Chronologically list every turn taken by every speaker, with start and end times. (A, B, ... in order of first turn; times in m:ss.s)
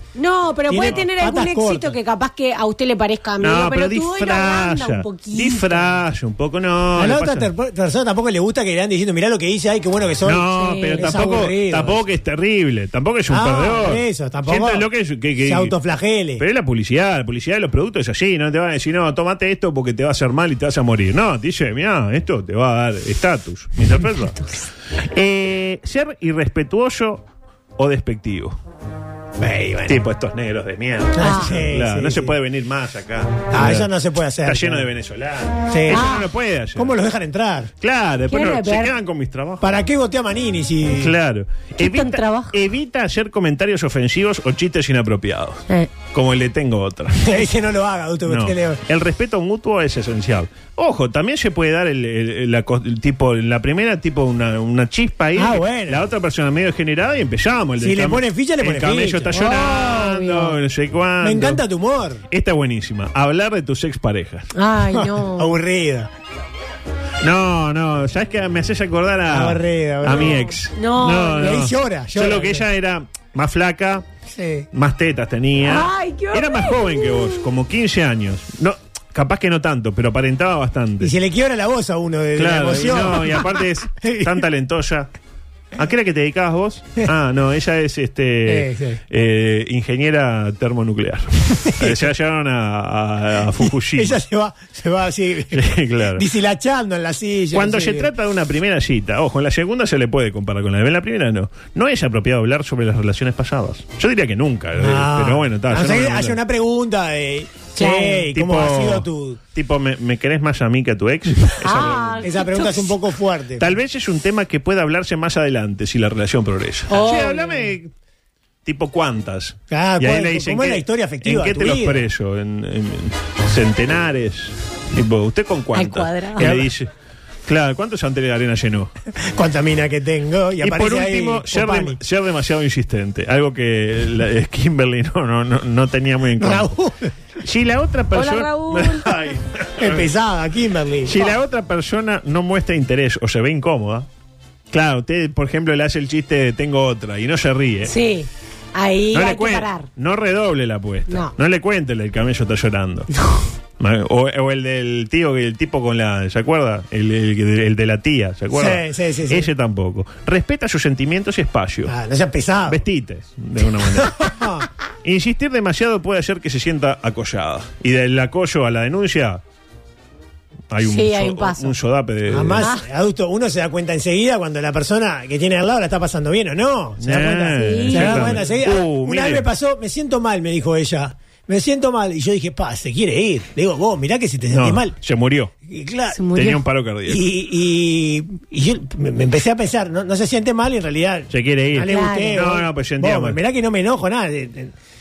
0:00.2-0:05.9 A
0:00.7-0:01.9 B
0:03.4-0:07.5 C
0:07.0-0:12.0 B
0:10.2-0:15.7 C
0:10.5-0:11.3 A
0:13.3-0:14.8 B
0:15.4-0:16.4 B
0:16.4-0:24.4 C
0:25.0-0:27.2 C
0:27.8-0:28.6 C
0:29.4-0:30.0 B
0:29.9-0:33.9 C
0:31.2-0:32.3 B
0:31.2-0:31.5 A
0:33.5-0:34.9 B
0:34.4-0:37.0 C
0:35.7-0:36.2 B
0:35.9-0:36.3 A
0:36.8-0:37.7 B
0:37.8-0:39.8 C
0:38.3-0:38.9 A
0:39.6-0:41.1 B
0:40.9-0:47.5 C
0:41.8-0:42.6 A
0:47.2-0:48.8 B
0:48.3-1:01.6 C
0:55.4-0:56.0 B
0:57.8-0:59.3 B
0:59.3-1:00.6 A
1:01.2-1:02.2 B
1:02.3-1:04.5 C
1:04.5-1:05.5 A
1:05.0-1:06.1 B
1:07.2-1:14.0 C
1:09.3-1:10.5 B
1:10.2-1:11.4 A
1:11.3-1:12.6 B
1:14.3-1:14.7 B
1:14.7-1:21.1 C
1:15.6-1:17.4 A
1:21.0-1:24.4 B
1:22.4-1:25.1 C
1:25.8-1:34.2 C
1:28.5-1:29.0 B
1:31.8-1:32.0 B
1:34.0-1:35.6 B
1:35.5-1:36.3 C
1:36.2-1:38.1 B
1:37.5-1:46.4 C
1:44.8-1:49.4 B
1:47.8-1:48.3 A
1:48.3-1:52.4 C
1:51.6-1:52.9 A
1:52.2-1:53.7 B
1:53.6-1:57.9 C
1:56.9-1:57.7 A
1:58.6-2:06.9 C
1:59.7-2:02.0 B
2:05.7-2:06.5 A
2:06.4-2:06.7 B
2:07.5-2:08.9 C
2:09.4-2:12.0 B
2:10.6-2:16.7 C
2:16.4-2:17.1 B
2:17.4-2:20.1 C
2:19.8-2:21.3 B
2:21.1-2:24.1 C
2:24.7-2:27.9 C
2:27.9-2:29.9 A
2:29.1-2:33.1 C
2:33.1-2:33.4 A
2:33.8-2:41.9 C
2:38.5-2:39.5 B
2:41.9-2:42.8 B
2:42.7-2:44.4 C
2:43.9-2:44.7 B
2:45.0-2:49.4 C
2:50.7-2:52.7 C
2:50.8-2:51.8 A
2:52.3-3:04.9 B
2:52.6-2:52.8 A
2:57.0-2:59.5 C
2:57.6-2:58.4 A
3:04.5-3:05.5 C
3:05.7-3:06.2 B
3:06.1-3:06.6 A
3:06.4-3:07.2 C
3:07.1-3:14.7 B
3:11.3-3:13.4 C
3:11.9-3:12.4 A